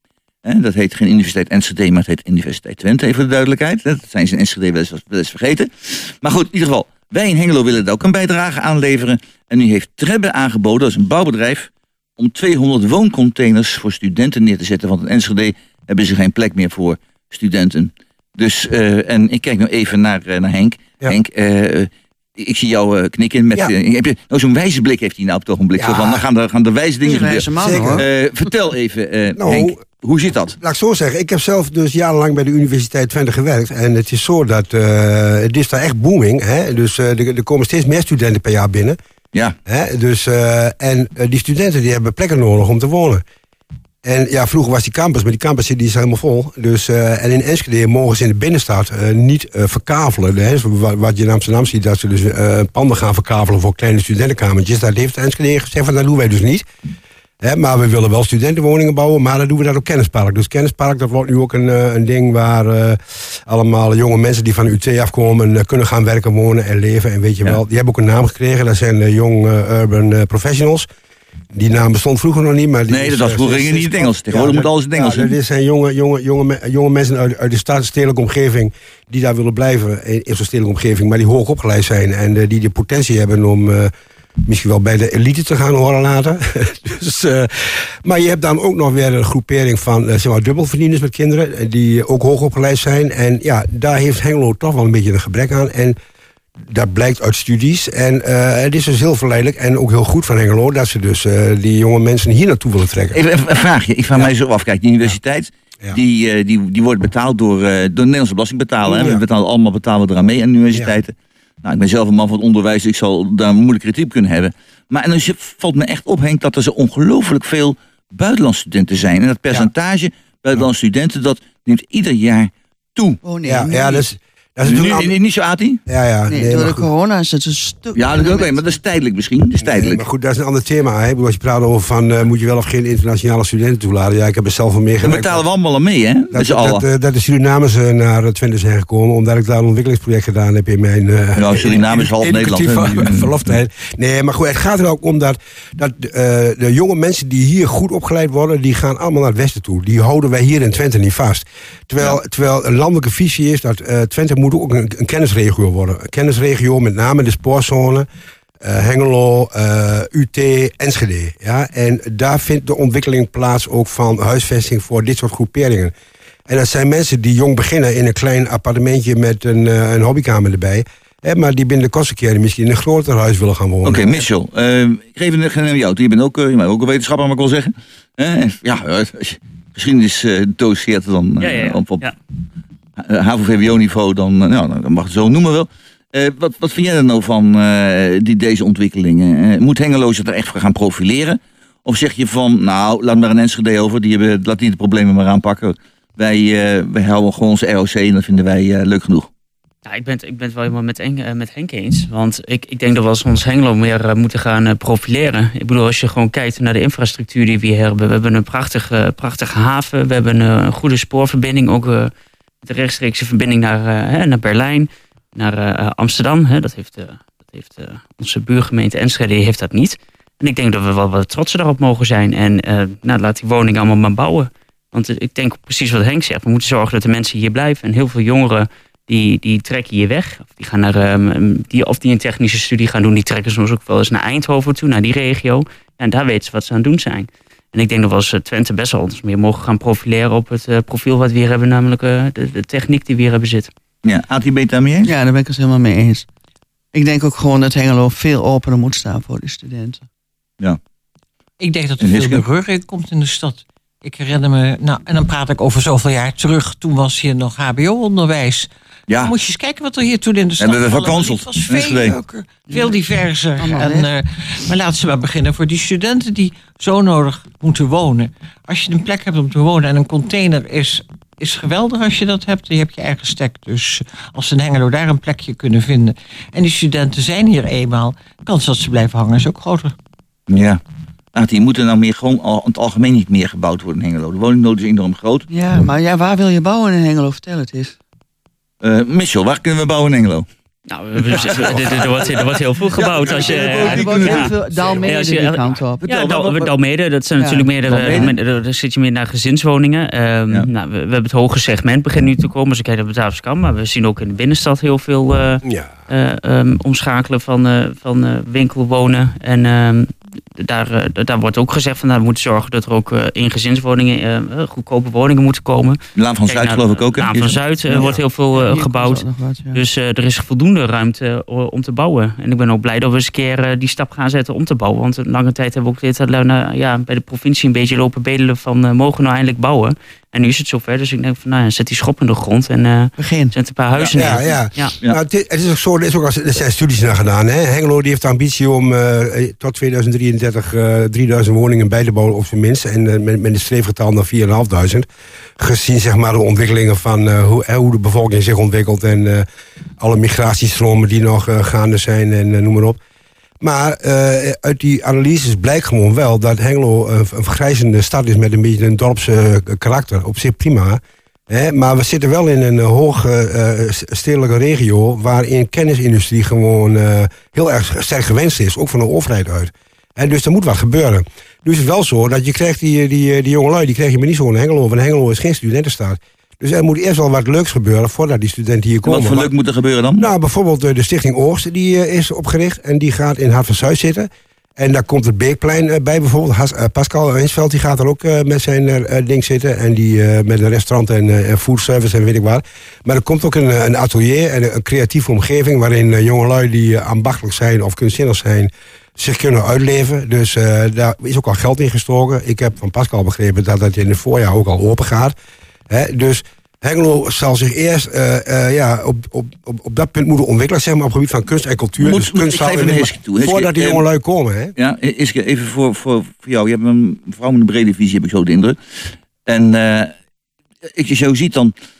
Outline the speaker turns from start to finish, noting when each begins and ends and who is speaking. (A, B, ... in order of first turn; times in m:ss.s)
0:00.4-0:30.6 A
0:25.7-0:26.2 B
0:27.0-0:28.0 C
0:27.6-0:28.0 B
0:29.4-0:29.8 B
0:30.6-0:39.0 B
0:39.7-0:43.2 B
0:44.0-0:56.6 B
0:57.4-1:10.9 B
1:11.5-1:23.9 B
1:12.9-1:15.3 A
1:24.4-1:36.0 B
1:36.7-1:43.2 B
1:43.1-2:03.2 A
1:48.8-1:49.2 B
2:03.2-2:04.0 C
2:03.4-2:05.1 B
2:04.6-2:05.8 A
2:05.9-2:06.9 B
2:06.3-2:08.6 C
2:07.9-2:10.0 A
2:09.6-2:15.4 B
2:15.0-2:16.8 A
2:16.3-2:38.1 B
2:21.3-2:23.4 A
2:38.6-2:45.9 B
2:46.5-2:54.2 B
2:53.8-3:02.0 A
3:01.4-3:02.2 D
3:03.0-3:19.3 A
3:19.8-3:32.1 D
3:32.6-4:03.7 D
4:04.0-4:05.1 A
4:05.0-4:06.2 C
4:06.9-4:10.0 C
4:11.6-4:39.9 E
4:12.0-4:12.4 A
4:19.1-4:19.3 A
4:20.6-4:22.2 A
4:22.7-4:22.9 C
4:23.6-4:24.1 C
4:40.5-4:40.8 A
4:41.3-4:45.5 A
4:45.5-4:48.0 C
4:48.8-4:50.5 A
4:50.9-5:35.0 D
4:51.2-4:54.9 A
4:53.0-4:56.1 C
4:56.0-4:56.7 A
4:57.4-4:58.3 C
4:57.9-4:58.3 A
5:05.6-5:05.9 B
5:16.2-5:17.6 A
5:17.9-5:19.8 C
5:33.2-5:33.5 C
5:34.2-5:45.1 B
5:45.6-5:49.4 B
5:50.0-5:53.0 B
5:53.6-6:19.5 B
6:19.0-6:20.3 A
6:20.2-6:45.3 B
6:45.9-6:54.7 B
6:52.0-6:54.0 A
6:54.8-7:00.1 A
7:00.9-7:01.7 A